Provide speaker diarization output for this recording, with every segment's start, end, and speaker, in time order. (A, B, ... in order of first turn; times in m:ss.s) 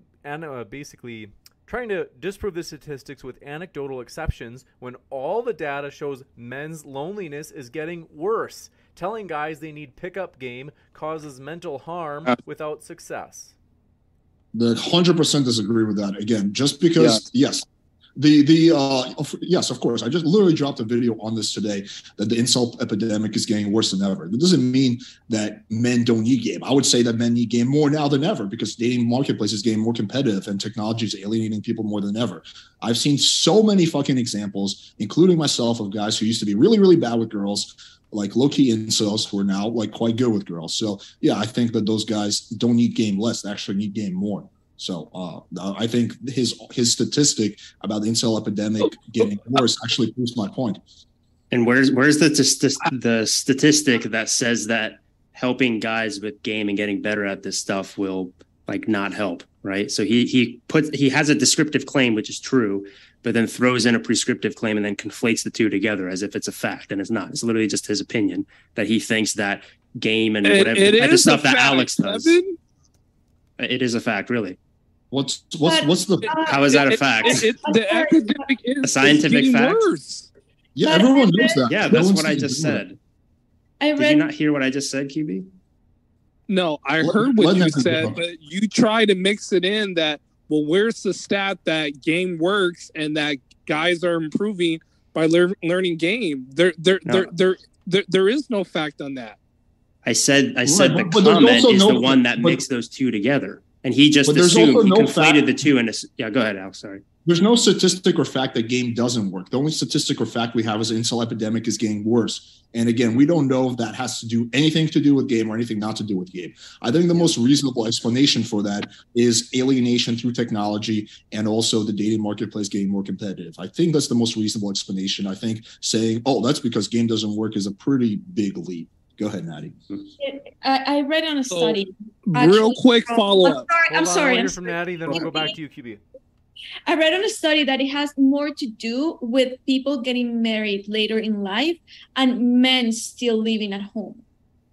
0:00.2-0:13.5 A
0:14.5-0:17.6 B
0:18.2-0:50.8 B
0:51.5-1:12.4 C
1:10.4-1:12.6 D
1:13.6-1:14.6 C
1:15.1-1:16.4 B
1:15.6-1:18.5 E
1:16.5-1:17.4 C
1:16.5-1:20.3 D
1:18.8-1:19.9 C
1:20.7-1:22.8 B
1:20.8-1:21.6 E
1:21.7-1:23.0 C
1:23.8-1:24.3 E
1:24.0-1:25.4 C
1:26.5-1:39.4 D
1:27.0-1:28.2 B
1:40.0-1:47.0 C
1:40.6-1:42.6 B
1:44.2-1:45.5 B
1:47.2-2:09.8 B
2:10.2-2:15.5 E
2:11.5-2:13.7 D
2:13.9-2:16.0 A
2:16.9-2:24.2 E